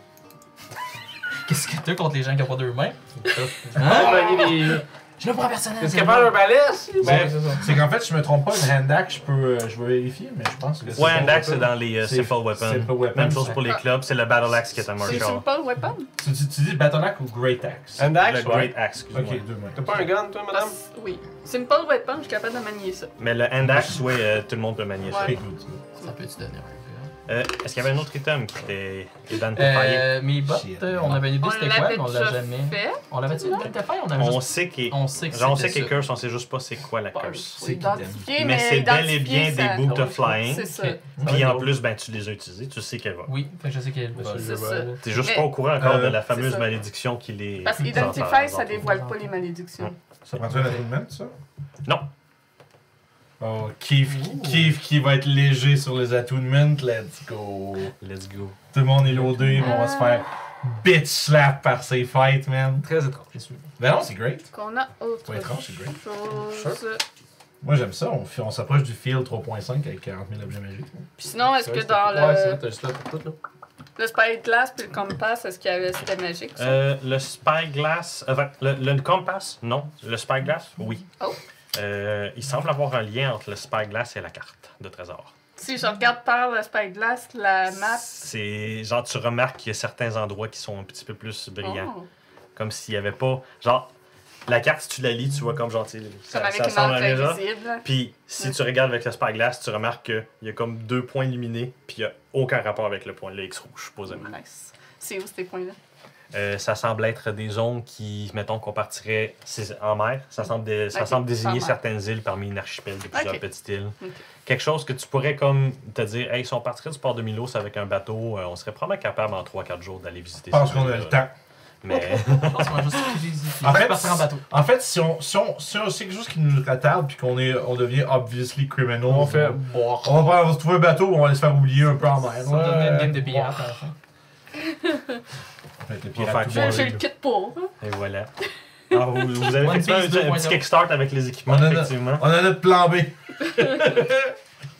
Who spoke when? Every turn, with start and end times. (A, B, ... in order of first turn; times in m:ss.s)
0:01.4-0:03.0 A
0:03.2-0:04.8 B
0:03.7-0:06.4 A
0:05.8-0:07.7 B
0:07.0-0:07.3 C
0:07.0-0:13.6 D
0:07.0-0:07.6 A
0:10.8-0:11.7 B
0:10.9-0:15.4 C
0:15.0-0:16.1 E
0:16.2-0:18.2 D
0:18.0-0:18.7 B
0:18.1-0:19.4 C
0:19.1-0:20.0 D
0:19.7-0:20.8 B
0:20.5-0:23.1 E
0:23.2-0:25.4 C
0:23.6-0:23.9 D
0:25.1-0:25.3 E
0:25.2-0:25.8 D
0:25.9-0:27.1 A
0:27.3-0:30.1 C
0:29.5-0:36.0 A
0:30.4-0:31.3 D
0:31.3-0:33.7 E
0:34.1-0:37.6 C
0:37.1-0:41.0 E
0:37.6-0:37.9 A
0:37.6-0:38.2 D
0:38.3-0:43.3 C
0:40.6-0:41.1 A
0:41.2-0:41.4 D
0:41.2-0:41.7 B
0:43.2-0:44.6 A
0:44.1-0:45.0 B
0:44.4-0:45.6 E
0:45.0-0:48.9 C
0:45.8-0:46.2 D
0:46.3-0:46.7 E
0:47.6-0:49.9 E
0:48.8-0:49.3 A
0:50.2-0:51.3 D
0:53.4-0:57.9 D
0:58.0-0:58.6 C
0:58.7-1:02.9 D
0:59.2-0:59.6 A
0:59.6-1:00.3 E
1:02.8-1:03.6 B
1:03.8-1:04.5 D
1:04.5-1:07.0 E
1:05.2-1:06.0 D
1:06.4-1:06.8 B
1:07.6-1:11.0 D
1:11.2-1:12.6 E
1:11.4-1:13.4 B
1:14.0-1:16.8 E
1:16.6-1:21.0 C
1:21.7-1:25.3 C
1:25.6-1:28.1 E
1:27.7-1:31.9 C
1:31.6-1:32.1 E
1:32.5-1:33.9 C
1:34.4-1:44.3 C
1:36.3-1:37.8 E
1:44.1-1:45.8 E
1:46.3-2:01.2 C
1:50.9-1:51.8 E
1:53.1-1:53.4 E
2:00.5-2:01.3 D
2:01.8-2:03.0 C
2:02.1-2:04.4 A
2:03.6-2:13.6 D
2:09.0-2:10.2 B
2:12.4-2:13.9 A
2:14.7-2:15.1 E
2:15.8-2:17.0 D
2:16.1-2:17.0 C
2:16.5-2:17.7 E
2:17.8-2:18.3 C
2:18.9-2:22.2 C
2:19.5-2:20.6 A
2:21.5-2:24.3 D